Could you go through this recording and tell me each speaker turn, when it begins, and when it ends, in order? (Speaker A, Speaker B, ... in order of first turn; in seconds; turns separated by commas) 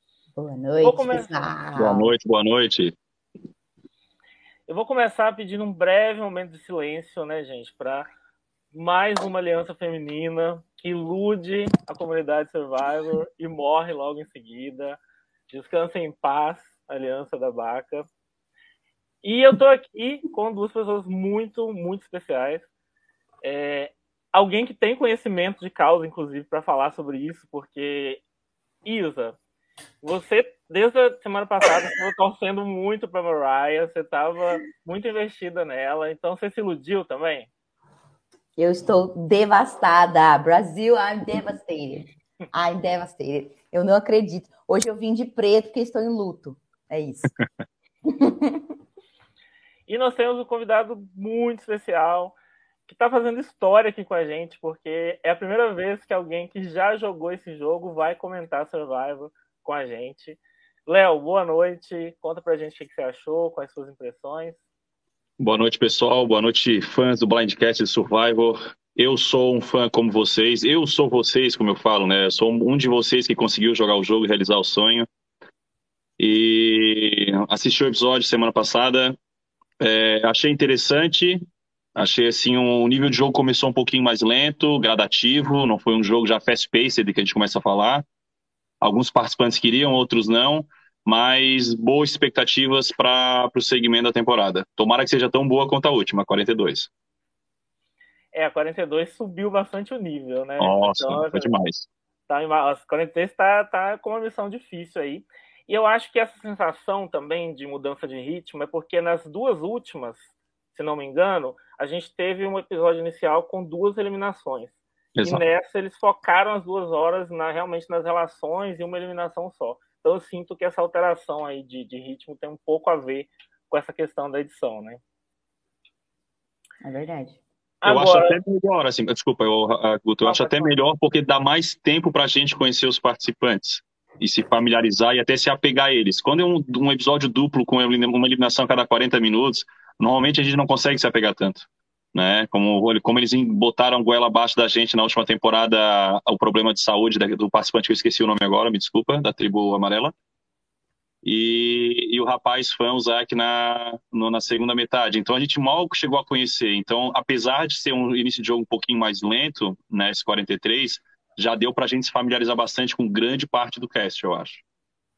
Speaker A: 0.3-2.1, Speaker B: 0.8-1.5, Speaker C: 1.8-3.0, Speaker B: 4.7-8.1, Speaker B: 8.7-15.0, Speaker B: 15.5-18.1, Speaker B: 19.2-22.7, Speaker B: 23.4-28.2, Speaker B: 28.9-29.4, Speaker B: 30.0-37.5, Speaker A: 38.6-47.3, Speaker A: 48.1-48.7, Speaker B: 49.9-52.4, Speaker B: 52.9-64.6, Speaker C: 65.4-75.1, Speaker C: 76.2-79.2, Speaker C: 79.8-81.4, Speaker C: 82.0-88.0, Speaker C: 88.8-96.9, Speaker B: 98.3-101.5, Speaker C: 100.6-101.9, Speaker B: 102.3-125.0, Speaker C: 115.2-115.4, Speaker A: 126.8-127.4, Speaker B: 127.8-128.4, Speaker C: 127.8-150.1, Speaker B: 130.2-130.8, Speaker C: 151.2-164.6